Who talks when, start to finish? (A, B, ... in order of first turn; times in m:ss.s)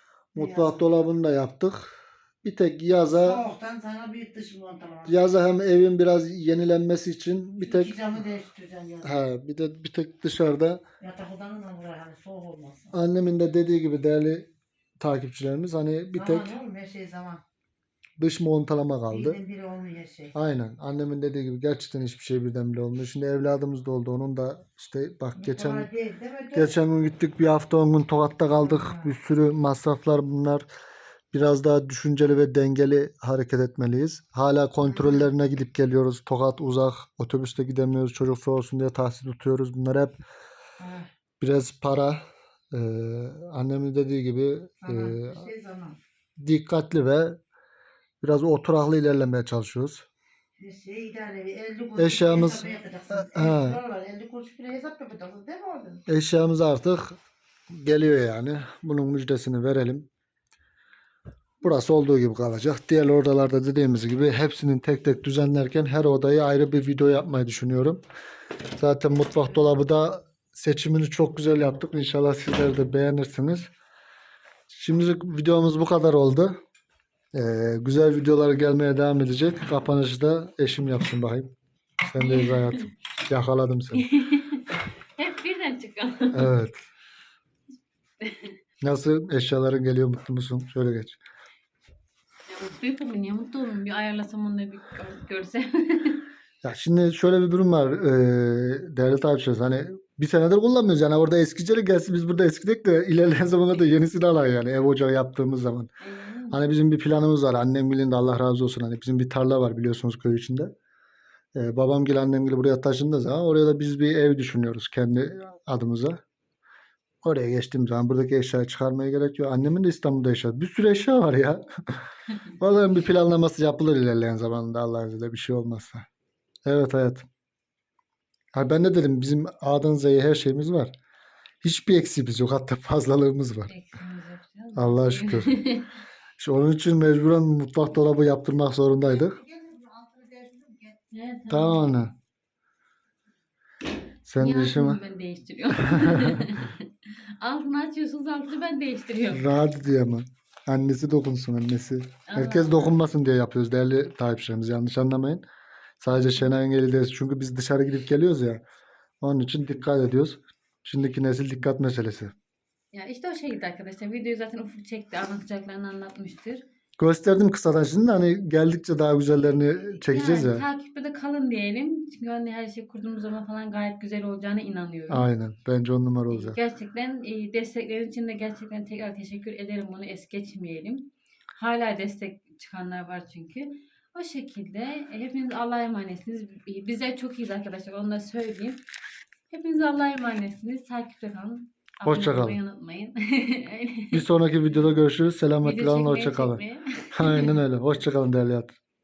0:00.3-0:03.4 A
0:00.3-0:00.9 B
0:03.1-0:05.3 B
0:05.1-0:08.0 A
0:07.6-0:09.2 B
0:09.0-0:10.8 A
0:11.0-0:12.9 B
0:12.9-0:14.5 A
0:15.0-0:16.5 A
0:16.1-0:17.4 B
0:18.2-0:19.4 A
0:19.1-0:20.3 B
0:20.3-0:25.9 A
0:25.4-0:26.7 B
0:26.5-0:30.6 A
0:28.6-0:29.1 B
0:31.3-0:40.2 A
0:34.9-0:35.3 B
0:40.8-0:41.1 B
0:41.4-0:45.5 A
0:44.8-0:46.0 B
0:46.4-0:47.4 A
0:48.2-0:50.0 A
0:50.6-0:56.0 B
0:52.0-0:53.8 A
0:56.1-0:57.2 A
0:57.7-1:00.1 A
1:01.6-1:08.0 A
1:08.8-1:13.7 A
1:14.7-1:16.6 A
1:17.3-1:24.1 A
1:22.2-1:22.8 C
1:24.0-1:26.6 C
1:26.3-1:26.8 A
1:28.2-1:28.6 C
1:28.8-1:31.2 A
1:32.5-1:36.2 C
1:36.6-1:45.9 A
1:46.0-1:46.6 C
1:46.5-1:50.7 A
1:51.5-1:56.2 A
1:57.2-2:01.6 A
2:02.5-2:06.0 A
2:06.6-2:07.2 A
2:08.5-2:10.9 A
2:11.6-2:13.7 A
2:13.7-2:15.9 C
2:14.7-2:15.5 A
2:16.4-2:19.4 A
2:19.0-2:21.0 B
2:21.1-2:21.9 C
2:21.5-2:22.1 A
2:24.2-2:25.0 A
2:24.4-2:29.5 C
2:25.9-2:26.4 A
2:29.3-2:35.4 A
2:32.3-2:33.0 C
2:36.0-2:38.6 A
2:39.2-2:42.3 A
2:42.9-2:46.6 C
2:47.0-2:50.6 A
2:50.1-2:55.3 C
2:55.1-2:56.6 A
2:56.3-3:08.8 C
3:09.5-3:14.2 C
3:12.0-3:12.6 A
3:14.1-3:16.6 A
3:15.6-3:17.6 C
3:17.1-3:18.8 A